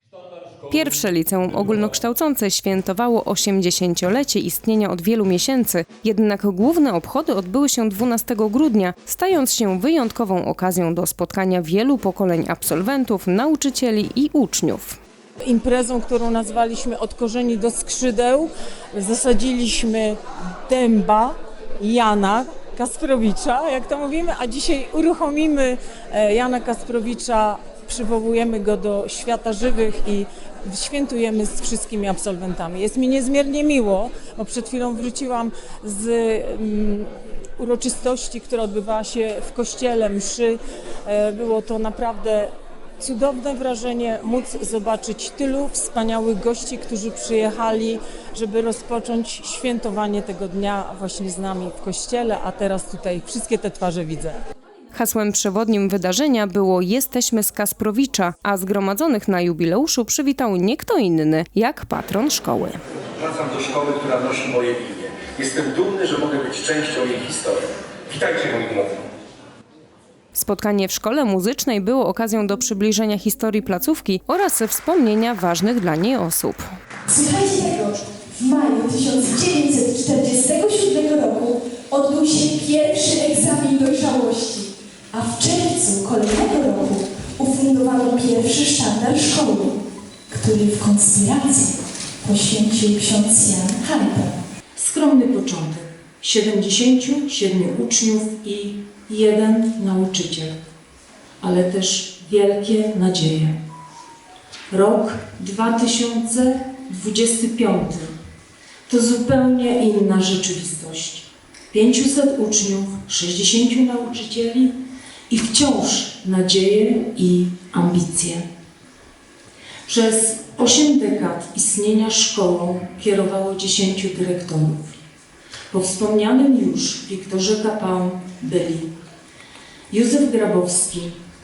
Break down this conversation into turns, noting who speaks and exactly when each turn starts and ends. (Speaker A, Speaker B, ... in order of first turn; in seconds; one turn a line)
Speaker A: 0.6-15.0
Speaker B: 15.4-54.4
Speaker A: 54.9-62.8
Speaker C: 63.2-69.1
Speaker A: 70.3-76.7
Speaker D: 77.1-89.7
Speaker D: 90.3-94.3
Speaker E: 94.8-100.6
Speaker E: 101.4-103.6
Speaker E: 104.7-108.1
Speaker E: 108.9-114.8
Speaker E: 115.3-118.5
Speaker E: 119.9-125.0
Speaker E: 125.7-128.9
Speaker E: 129.9-131.2